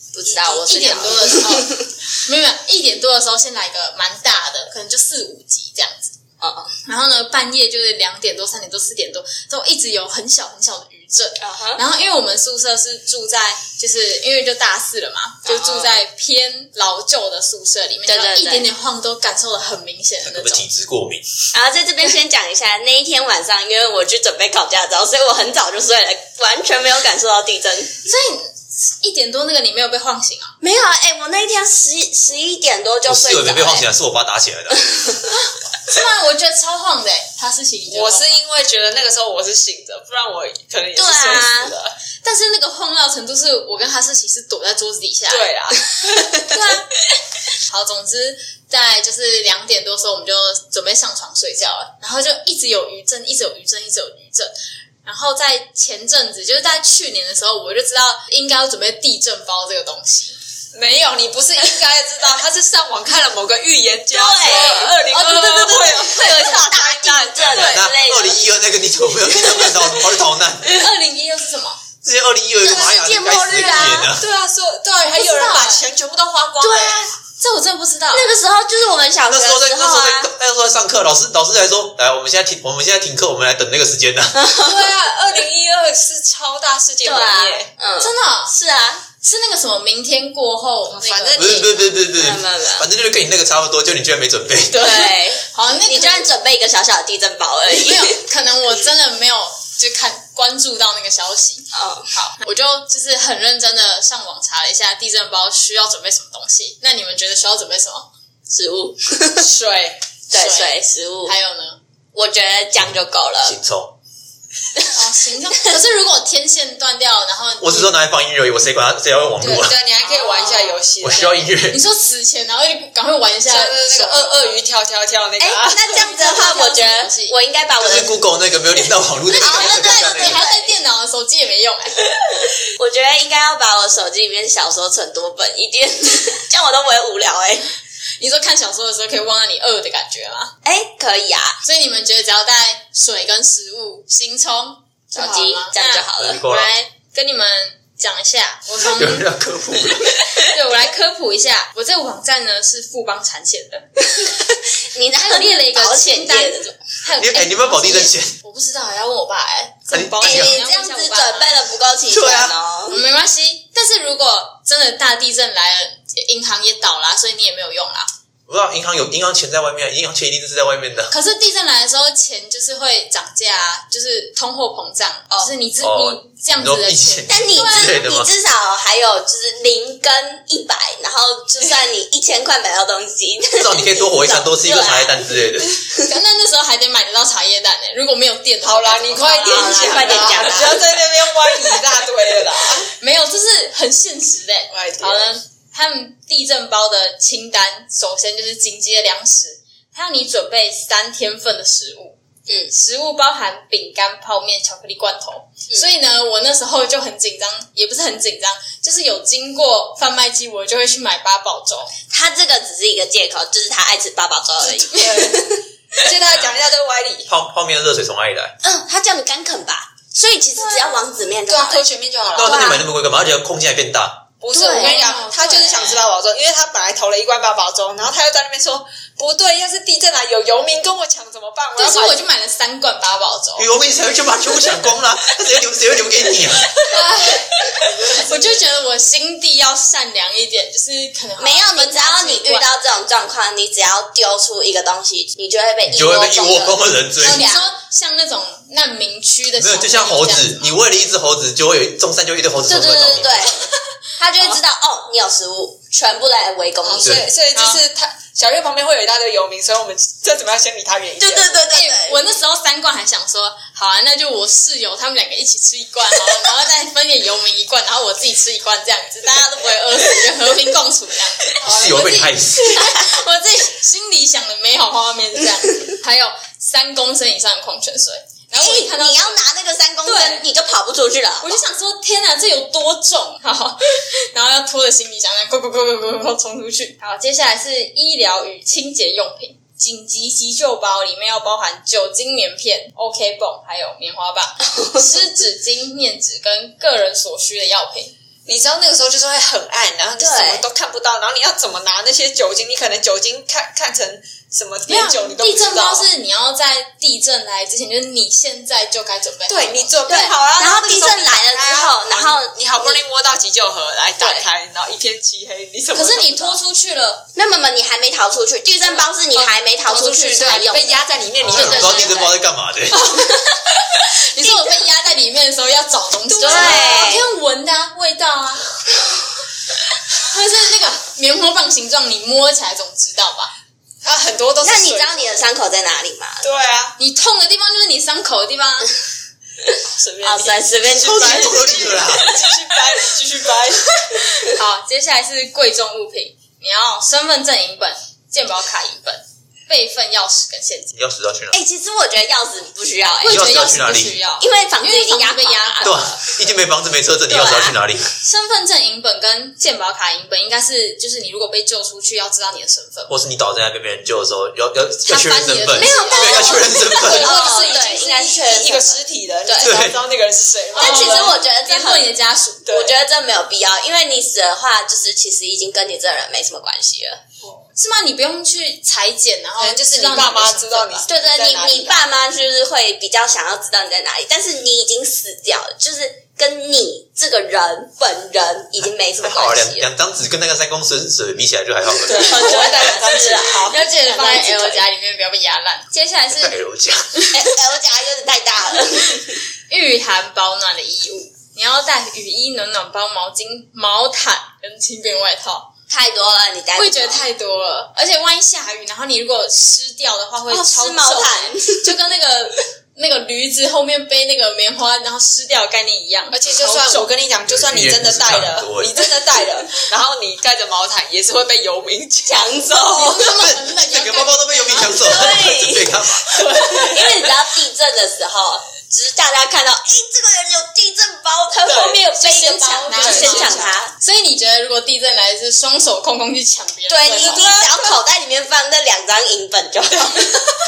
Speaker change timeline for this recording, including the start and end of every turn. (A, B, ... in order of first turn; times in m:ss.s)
0:00.1-0:01.9 A
0:00.2-0:06.1 B
0:06.4-0:06.7 A
0:06.8-0:20.7 B
0:11.4-0:11.8 A
0:15.4-0:16.0 A
0:18.1-0:18.7 A
0:20.2-0:21.3 C
0:21.5-0:28.0 A
0:28.0-0:30.6 B
0:30.6-0:33.9 A
0:33.0-0:35.1 C
0:34.7-0:35.1 A
0:35.3-0:38.4 B
0:37.9-0:41.9 D
0:40.9-0:41.8 A
0:42.2-0:45.5 B
0:45.3-0:46.6 D
0:46.4-0:46.9 B
0:47.6-0:54.5 B
0:55.0-1:00.4 B
1:00.7-1:07.9 D
1:04.1-1:08.4 A
1:07.4-1:10.9 C
1:09.0-1:10.0 A
1:10.7-1:11.8 B
1:12.0-1:14.2 C
1:12.6-1:14.1 A
1:13.5-1:17.0 D
1:15.0-1:15.9 B
1:16.6-1:17.1 A
1:17.4-1:18.4 B
1:18.1-1:20.3 A
1:19.3-1:24.5 C
1:24.4-1:24.8 A
1:24.6-1:27.7 D
1:27.0-1:29.0 A
1:28.0-1:28.6 B
1:29.2-1:31.8 B
1:30.9-1:31.8 D
1:31.4-1:34.9 C
1:32.1-1:32.9 A
1:34.7-1:38.2 A
1:35.4-1:36.3 B
1:37.7-1:48.1 B
1:41.7-1:42.1 A
1:48.5-1:49.5 A
1:49.4-1:50.0 D
1:50.3-1:51.4 A
1:50.3-1:51.8 B
1:52.1-1:53.6 A
1:53.4-1:53.9 C
1:54.9-1:58.0 B
1:57.6-1:59.7 C
1:59.4-2:01.5 D
2:00.0-2:00.8 A
2:00.3-2:00.5 B
2:01.0-2:01.8 C
2:01.7-2:04.6 B
2:03.5-2:05.8 D
2:05.4-2:08.1 A
2:05.8-2:07.4 B
2:07.8-2:10.4 C
2:08.7-2:10.7 A
2:09.3-2:12.0 B
2:12.1-2:17.6 A
2:18.2-2:20.5 B
2:20.6-2:21.6 A
2:21.6-2:29.2 B
2:25.1-2:26.4 A
2:26.2-2:26.7 C
2:28.8-2:30.1 C
2:30.4-2:33.8 B
2:34.1-2:36.7 A
2:35.2-2:41.6 B
2:37.2-2:38.3 C
2:39.9-2:40.6 C
2:40.2-2:43.0 A
2:42.1-2:42.5 C
2:42.9-2:48.1 B
2:48.5-2:51.1 C
2:51.1-2:58.0 B
2:55.8-2:58.3 C
2:57.3-3:06.1 A
3:03.5-3:05.8 C
3:06.0-3:10.8 B
3:08.6-3:12.9 D
3:09.4-3:10.8 A
3:13.0-3:22.2 B
3:14.7-3:15.3 D
3:22.5-3:22.7 A
3:22.7-3:31.9 B
3:32.1-3:35.6 A
3:34.9-3:37.3 D
3:37.3-3:38.6 C
3:38.6-3:42.9 A
3:40.7-3:41.0 B
3:41.5-3:42.8 D
3:42.3-3:44.3 C
3:44.4-3:52.2 D
3:44.5-3:45.0 A
3:44.5-3:46.0 B
3:51.8-3:53.7 B
3:53.6-3:56.7 C
3:56.8-4:02.7 B
3:56.9-3:58.6 D
4:01.4-4:07.7 A
4:05.8-4:07.4 C
4:07.2-4:10.7 B
4:09.6-4:13.6 C
4:12.6-4:13.6 A
4:14.2-4:17.2 A
4:16.8-4:21.6 D
4:17.5-4:17.8 B
4:21.2-4:22.2 A
4:21.7-4:39.4 B
4:31.6-4:32.1 D
4:31.6-4:33.0 C
4:38.5-4:41.6 A
4:40.0-4:40.4 B
4:41.4-4:43.8 B
4:44.3-4:58.1 B
4:58.4-5:06.1 D
5:00.2-5:00.6 A
5:04.9-5:10.0 B
5:09.5-5:16.6 D
5:10.0-5:13.0 A
5:14.2-5:14.4 A
5:15.9-5:17.3 B
5:17.3-5:22.4 A
5:19.3-5:22.3 D
5:21.4-5:23.1 C
5:21.6-5:21.9 B
5:22.9-5:28.7 B
5:24.4-5:24.8 A
5:26.3-5:27.1 D
5:26.4-5:27.2 A
5:30.2-5:33.5 B
5:34.0-5:35.4 D
5:34.6-5:36.4 A
5:36.4-5:37.0 D
5:37.0-5:38.9 B
5:40.0-5:44.0 D
5:40.2-5:42.3 A
5:41.0-5:42.3 C
5:44.4-5:50.9 B
5:50.9-5:51.6 C
5:51.5-5:53.6 A
5:53.2-5:56.4 B
5:53.2-5:54.2 C
5:54.4-5:56.0 A
5:55.8-5:58.1 C
5:57.3-5:57.8 A
5:58.2-6:03.1 B
6:03.1-6:07.3 C
6:05.1-6:07.2 B
6:05.8-6:09.8 A
6:06.1-6:11.4 D
6:09.6-6:10.0 C
6:10.7-6:12.1 A
6:10.8-6:12.7 B
6:12.6-6:12.9 D
6:12.7-6:17.2 A
6:17.7-6:21.1 B
6:19.6-6:22.0 D
6:21.1-6:29.8 A
6:29.2-6:32.4 C
6:32.1-6:33.8 D
6:32.1-6:34.8 A
6:32.4-6:32.6 B
6:33.6-6:36.6 B
6:36.3-6:37.1 C
6:37.1-6:37.4 B
6:37.3-6:39.4 A
6:39.7-6:45.7 B
6:45.9-6:47.2 A
6:46.7-6:57.1 B
6:50.5-6:51.9 A
6:56.3-7:03.0 D
6:57.5-6:59.0 C
7:02.2-7:03.4 A
7:02.9-7:05.3 B
7:03.3-7:06.2 C
7:04.8-7:13.9 A
7:06.2-7:07.3 D
7:11.6-7:12.0 D
7:12.1-7:17.6 B
7:12.9-7:13.7 D
7:16.9-7:20.3 A
7:17.2-7:17.9 D
7:19.9-7:20.4 D